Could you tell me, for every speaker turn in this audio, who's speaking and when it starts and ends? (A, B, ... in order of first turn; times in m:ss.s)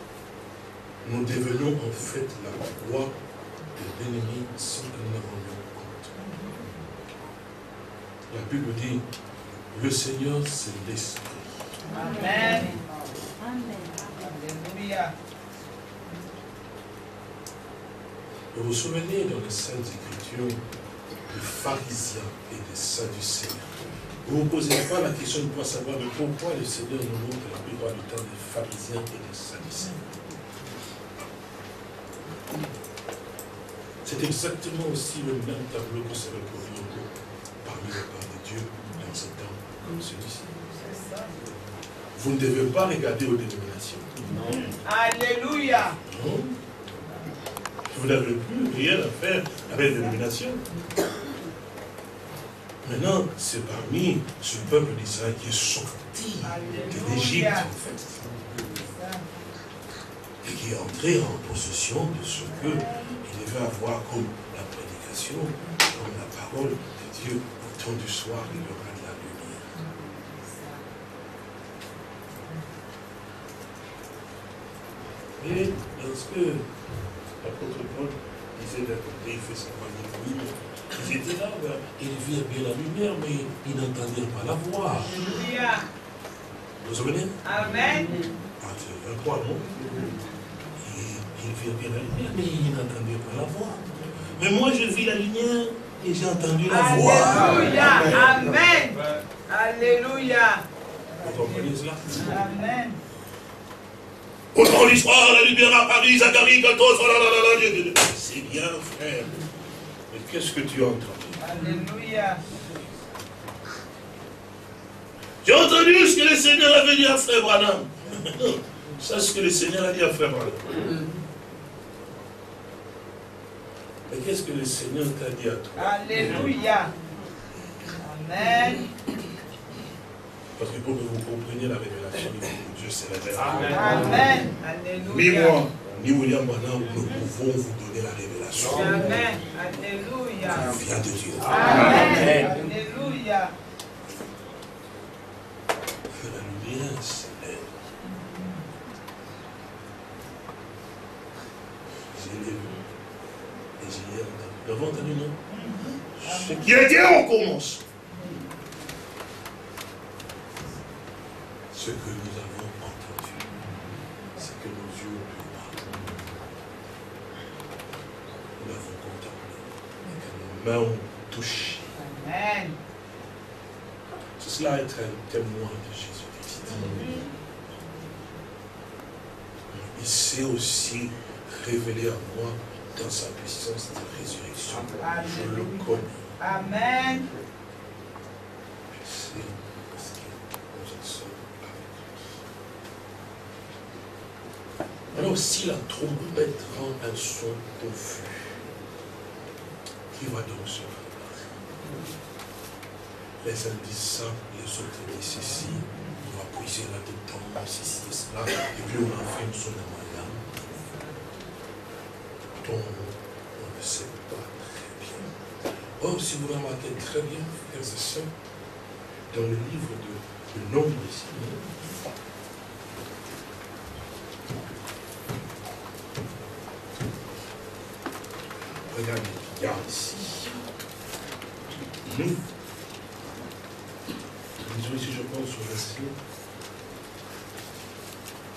0:01.0-0:03.1 A
0:03.7-0:06.1 A
0:08.3-0:09.0 A
0:09.7-0:11.6 A
0:11.9-0:12.8 B
0:14.2-0:15.1 B
0:18.5-0:20.6 A
0:21.3-0:23.7 A
0:24.2-0:30.0 A
0:34.0-0:37.1 A
0:37.6-0:40.4 A
0:40.8-0:41.4 B
0:42.1-0:44.4 A
0:44.7-0:46.0 B
0:46.0-0:46.5 A
0:47.9-0:50.6 A
0:52.8-0:58.2 A
0:56.4-0:57.6 B
0:58.8-0:59.2 B
1:00.4-1:09.7 A
1:02.7-1:02.9 B
1:15.4-1:16.6 A
1:17.4-1:25.2 A
1:25.2-1:25.8 B
1:26.8-1:27.4 A
1:27.4-1:28.2 B
1:28.6-1:29.7 A
1:30.8-1:33.8 A
1:34.4-1:37.8 A
1:36.7-1:40.6 B
1:41.2-1:42.3 A
1:42.2-1:43.0 B
1:44.5-1:49.4 A
1:50.1-1:51.4 A
1:51.4-1:52.4 B
1:55.4-2:00.6 A
2:04.1-2:06.0 A
2:05.8-2:06.9 B
2:08.0-2:08.9 B
2:10.6-2:14.0 A
2:13.7-2:15.6 B
2:15.0-2:19.0 A
2:18.7-2:20.6 B
2:20.5-2:21.8 A
2:21.5-2:23.5 B
2:26.2-2:27.7 A
2:32.1-2:32.8 A
2:33.8-2:35.4 A
2:35.5-2:36.7 B
2:36.2-2:37.8 A
2:41.7-2:43.5 A
2:44.4-2:46.1 A
2:48.6-2:51.9 A
2:52.1-2:52.8 B
2:54.4-2:57.0 A
2:59.7-3:06.2 A
3:05.0-3:05.6 B
3:06.4-3:07.3 B
3:08.9-3:12.4 A
3:15.1-3:18.6 A
3:20.1-3:21.4 A
3:23.4-3:30.6 A
3:32.6-3:35.3 A
3:36.0-3:38.3 A
3:39.3-3:41.7 A
3:48.9-3:50.6 A
3:52.0-3:52.4 A
3:54.6-3:56.2 A